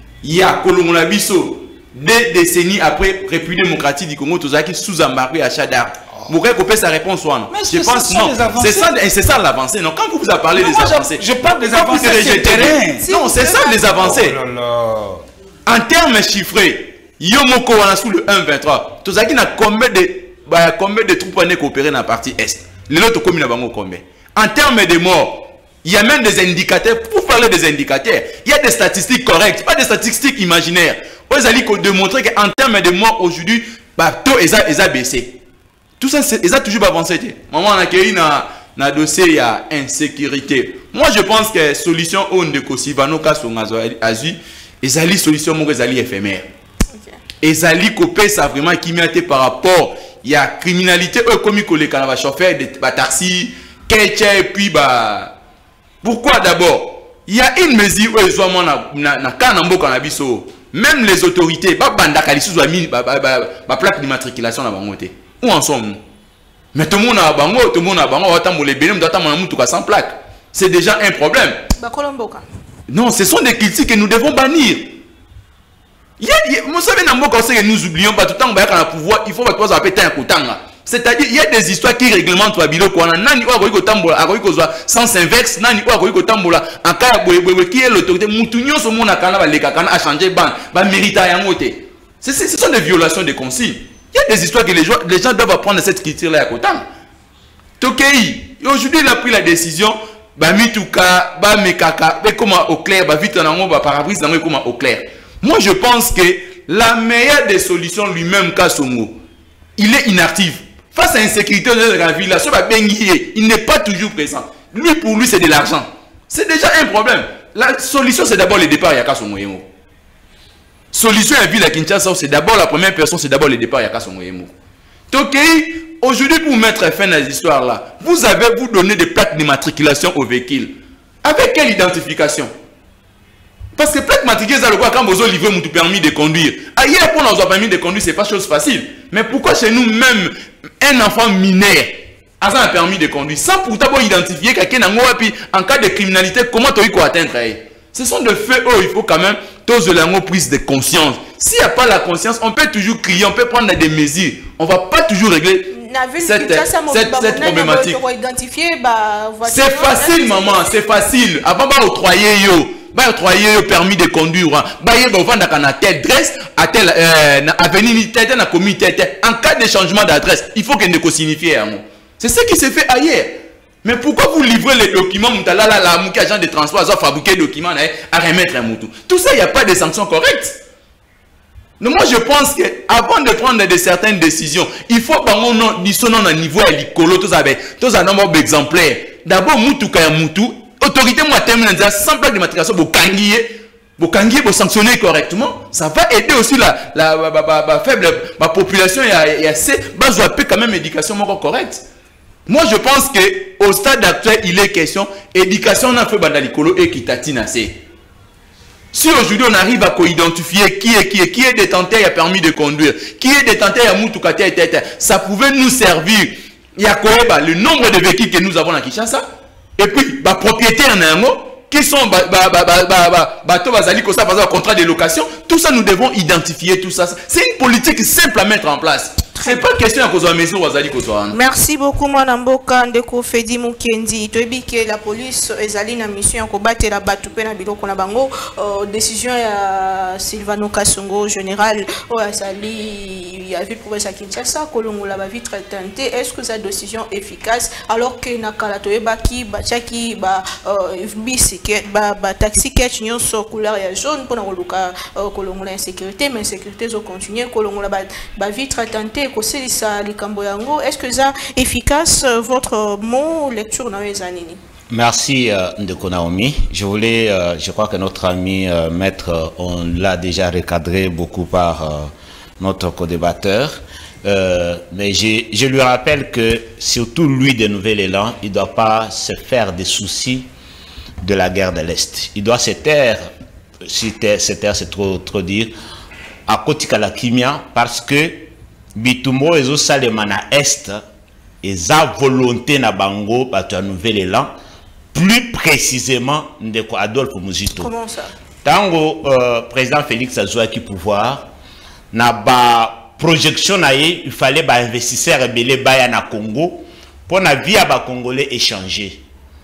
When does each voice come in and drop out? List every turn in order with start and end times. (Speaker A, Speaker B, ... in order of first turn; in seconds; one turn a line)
Speaker A: 0.2-14.4
Speaker B: 7.5-8.9
Speaker B: 10.6-13.1
Speaker C: 13.0-13.9
Speaker B: 13.7-15.2
Speaker A: 15.7-35.4
Speaker A: 36.0-46.5
Speaker A: 47.4-55.4
Speaker A: 56.0-66.0
Speaker A: 66.7-71.6
Speaker C: 71.8-72.4
Speaker A: 72.9-75.0
Speaker A: 76.2-96.8
Speaker A: 97.8-109.2
Speaker A: 109.8-119.7
Speaker A: 120.9-124.5
Speaker A: 125.1-132.5
Speaker A: 133.8-158.0
Speaker C: 155.7-160.7
Speaker A: 159.4-180.6
Speaker A: 181.8-201.8
Speaker A: 202.5-207.8
Speaker A: 208.9-231.4
Speaker C: 229.4-229.6
Speaker C: 231.3-264.6
Speaker D: 264.9-280.5
Speaker D: 281.2-283.3
Speaker D: 283.8-285.7
Speaker D: 286.5-291.0
Speaker D: 291.6-294.5
Speaker D: 295.1-297.9
Speaker C: 297.8-298.3
Speaker D: 298.6-301.5
Speaker D: 302.1-309.2